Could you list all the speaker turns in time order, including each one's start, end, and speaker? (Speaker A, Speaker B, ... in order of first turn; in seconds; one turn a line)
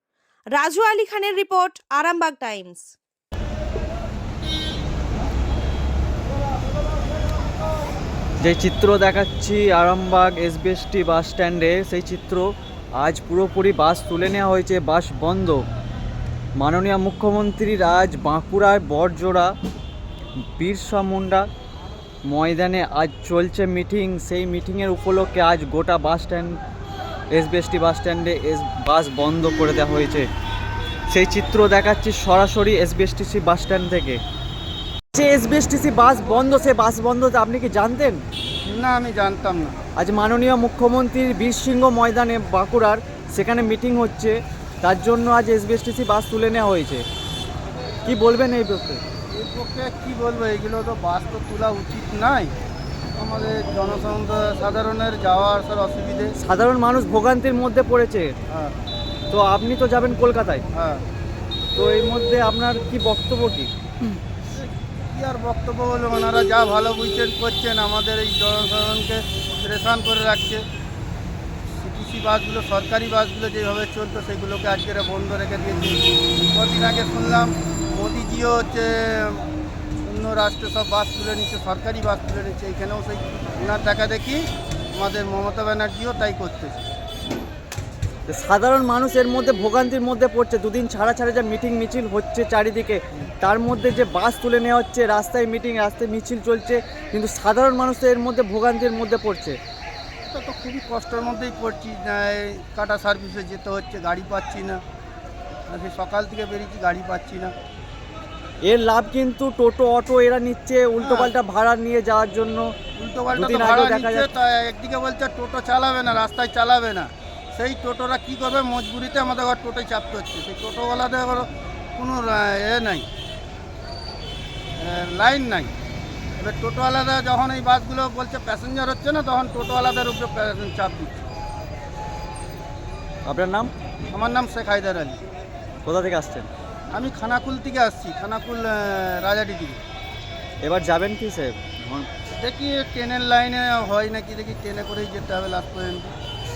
Speaker A: 0.6-2.9
Speaker B: 8.4-12.4
Speaker B: 13.0-15.6
Speaker B: 16.6-19.5
Speaker B: 20.6-21.5
Speaker B: 22.3-26.6
Speaker B: 27.3-30.3
Speaker B: 31.1-34.2
Speaker B: 35.1-38.2
Speaker C: 38.7-39.8
Speaker B: 40.0-47.0
Speaker B: 48.1-49.0
Speaker C: 49.3-52.5
Speaker C: 53.2-56.3
Speaker B: 56.4-58.3
Speaker C: 58.5-58.8
Speaker B: 59.3-60.6
Speaker C: 60.8-61.0
Speaker B: 61.8-63.7
Speaker C: 64.5-70.6
Speaker C: 71.8-79.5
Speaker C: 80.1-84.4
Speaker C: 85.0-86.8
Speaker B: 88.3-99.6
Speaker C: 100.3-104.8
Speaker C: 105.7-107.5
Speaker B: 108.7-112.7
Speaker C: 111.0-111.3
Speaker C: 113.0-123.1
Speaker B: 113.3-114.3
Speaker C: 124.8-125.7
Speaker C: 126.4-131.2
Speaker B: 133.3-133.7
Speaker C: 134.1-135.2
Speaker B: 135.8-136.5
Speaker C: 136.9-139.8
Speaker B: 140.6-142.1
Speaker C: 142.4-146.1